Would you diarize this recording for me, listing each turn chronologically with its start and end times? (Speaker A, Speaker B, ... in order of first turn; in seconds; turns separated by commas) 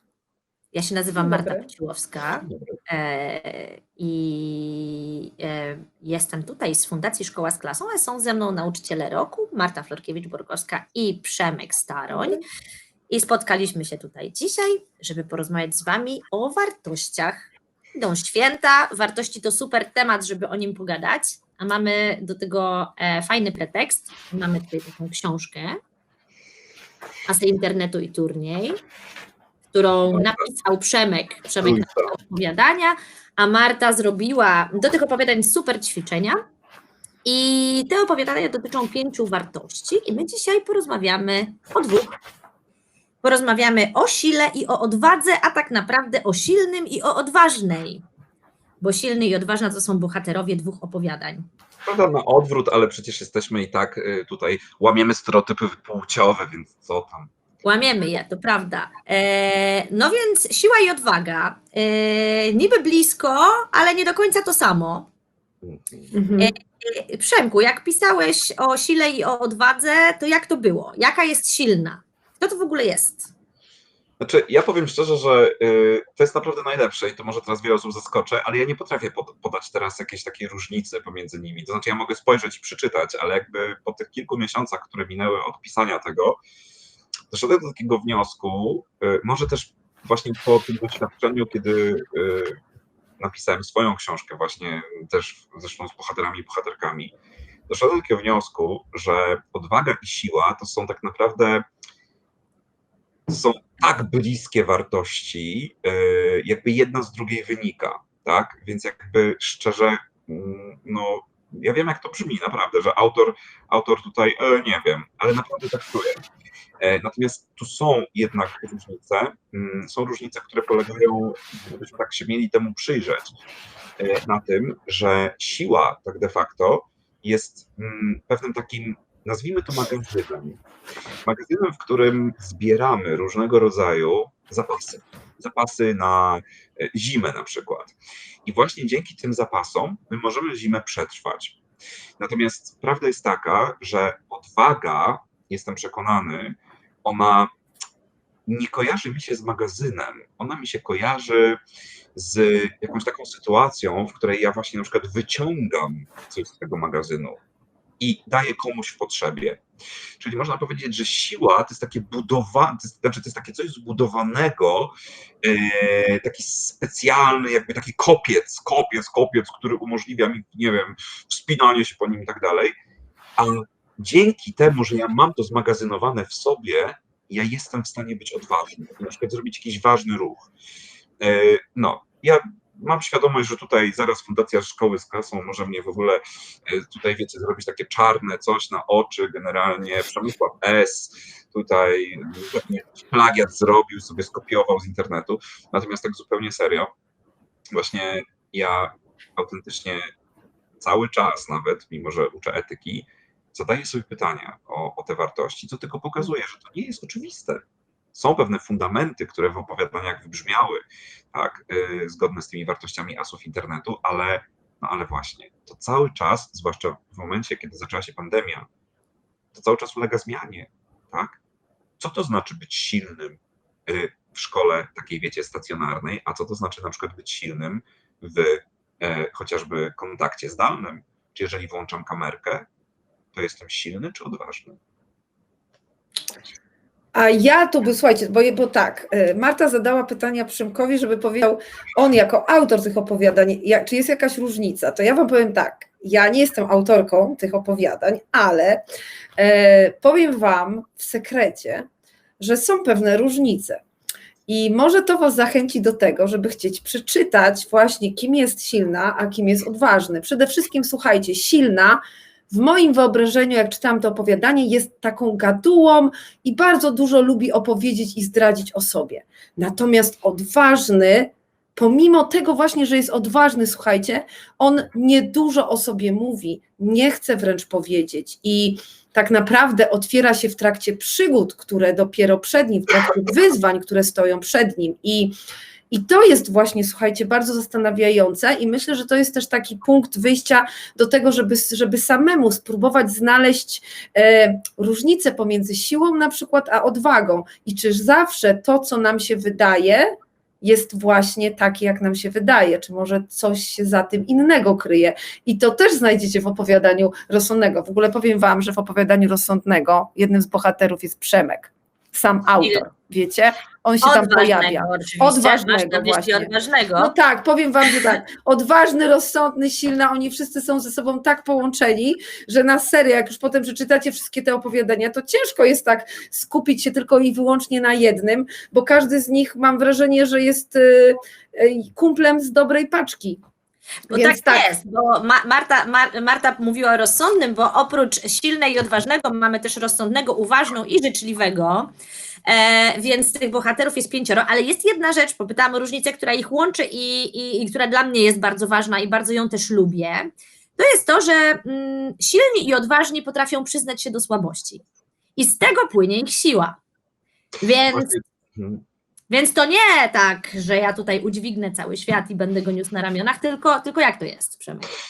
Speaker A: 0.7-12.4, Speaker B: 1.2-1.7, Speaker C: 2.4-2.7, Speaker A: 13.1-25.8, Speaker A: 27.2-28.8, Speaker A: 29.7-36.4, Speaker C: 30.1-30.5, Speaker C: 31.6-32.1, Speaker A: 37.2-42.1, Speaker A: 43.2-48.0, Speaker A: 48.8-51.5, Speaker C: 51.9-57.3, Speaker A: 57.6-65.1, Speaker C: 65.6-66.1, Speaker B: 66.1-66.5, Speaker A: 66.4-73.3, Speaker C: 74.2-86.4, Speaker C: 87.3-92.6, Speaker C: 93.2-97.1, Speaker C: 97.7-101.6, Speaker C: 103.3-116.2, Speaker C: 116.8-123.3, Speaker C: 124.0-130.6, Speaker C: 131.2-141.6, Speaker C: 142.2-147.5, Speaker C: 148.5-151.6, Speaker C: 152.1-157.4, Speaker C: 158.0-159.6, Speaker C: 160.2-172.7, Speaker C: 173.4-180.5, Speaker C: 181.2-196.9, Speaker C: 197.7-200.1, Speaker C: 200.8-218.7, Speaker C: 219.5-221.4, Speaker C: 222.0-232.7, Speaker C: 233.3-234.8, Speaker B: 237.1-248.8, Speaker B: 249.4-251.9, Speaker B: 252.4-253.8, Speaker B: 254.5-285.3, Speaker B: 285.9-333.4, Speaker A: 314.0-317.1, Speaker A: 334.1-341.9, Speaker B: 334.1-334.6, Speaker A: 342.4-354.8, Speaker A: 355.4-356.8, Speaker A: 357.6-358.2, Speaker C: 357.9-358.8, Speaker A: 359.3-364.9